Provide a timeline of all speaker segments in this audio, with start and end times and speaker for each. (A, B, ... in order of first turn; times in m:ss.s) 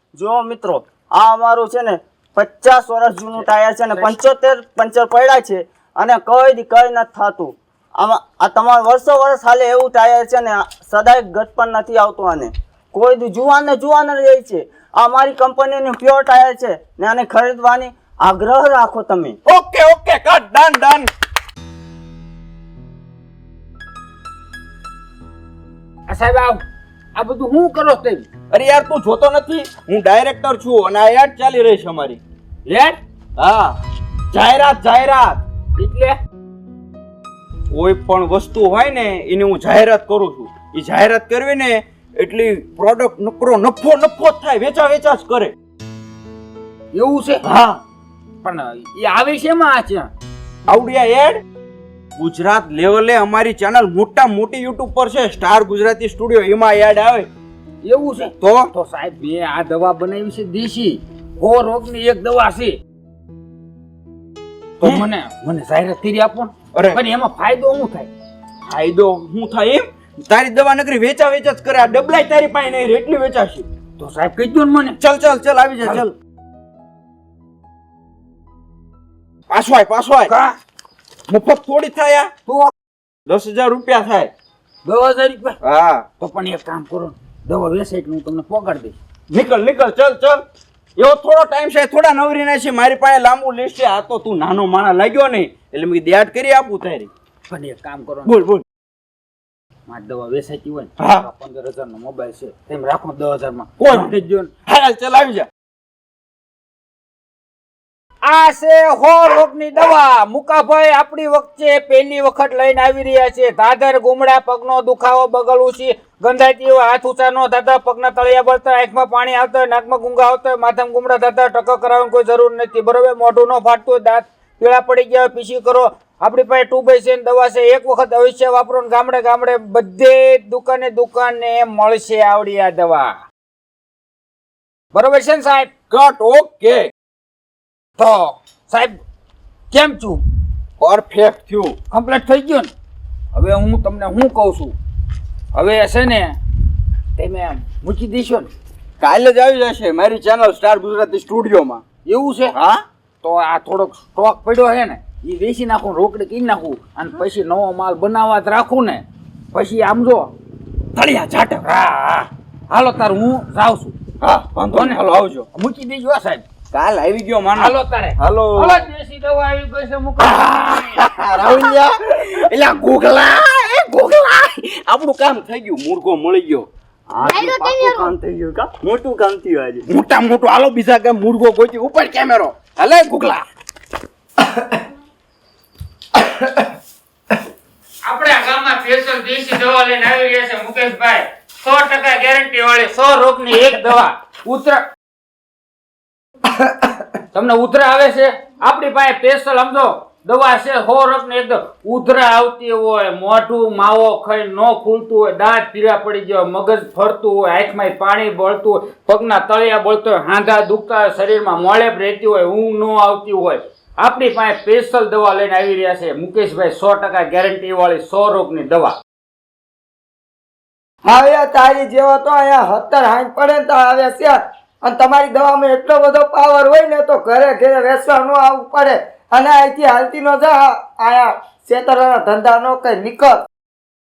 0:00.2-0:19.4 A
0:04.0-0:04.2 B
0:19.4-0:21.1 C
0:26.1-0:26.6 B
0:27.2-0:28.3 B
0:28.5-0:32.2 C
0:32.7-0:33.0 B
0:33.4-0:33.8 C
0:34.3-0:35.4 C
0:35.8-0:36.2 B
0:37.7-0:45.5 C
0:46.9-0:47.4 B
0:47.4-0:47.8 C
0:48.4-0:50.1 B
0:50.7-0:51.4 C
0:52.2-0:57.3 C
0:57.8-1:02.8 B
0:58.4-0:58.7 C
1:04.8-1:08.1 B
1:06.7-1:07.0 C
1:08.7-1:13.7 C
1:14.0-1:15.0 B
1:15.0-1:16.1 C
1:19.5-1:20.3 C
1:20.3-1:20.5 B
1:21.3-1:22.3 C
1:22.5-1:22.7 B
1:23.3-1:24.3 C
1:24.8-1:25.6 B
1:25.6-1:26.1 C
1:26.2-1:29.0 B
1:29.3-1:30.4 C
1:31.0-1:37.1 C
1:37.5-1:38.3 B
1:38.3-1:38.6 C
1:39.9-1:44.5 B
1:41.0-1:41.3 C
1:43.8-1:45.5 C
1:48.2-2:13.2 B
2:14.9-2:15.7 B
2:15.9-2:16.9 C
2:18.0-2:19.0 B
2:19.7-2:20.2 B
2:20.8-2:21.8 C
2:21.9-2:22.7 B
2:23.3-2:24.7 B
2:25.5-2:26.4 B
2:27.2-2:28.5 B
2:29.0-2:31.8 C
2:32.1-2:32.5 B
2:32.6-2:32.8 C
2:33.2-2:40.3 B
2:41.0-2:41.6 C
2:41.6-2:43.9 B
2:44.2-2:45.5 C
2:45.6-2:46.4 B
2:46.7-2:48.9 C
2:47.6-2:51.0 B
2:50.2-2:56.7 C
2:57.1-2:59.8 A
2:59.9-3:03.4 C
3:08.0-3:14.8 B
3:16.5-3:17.0 D
3:17.3-3:39.0 B
3:41.0-3:53.4 D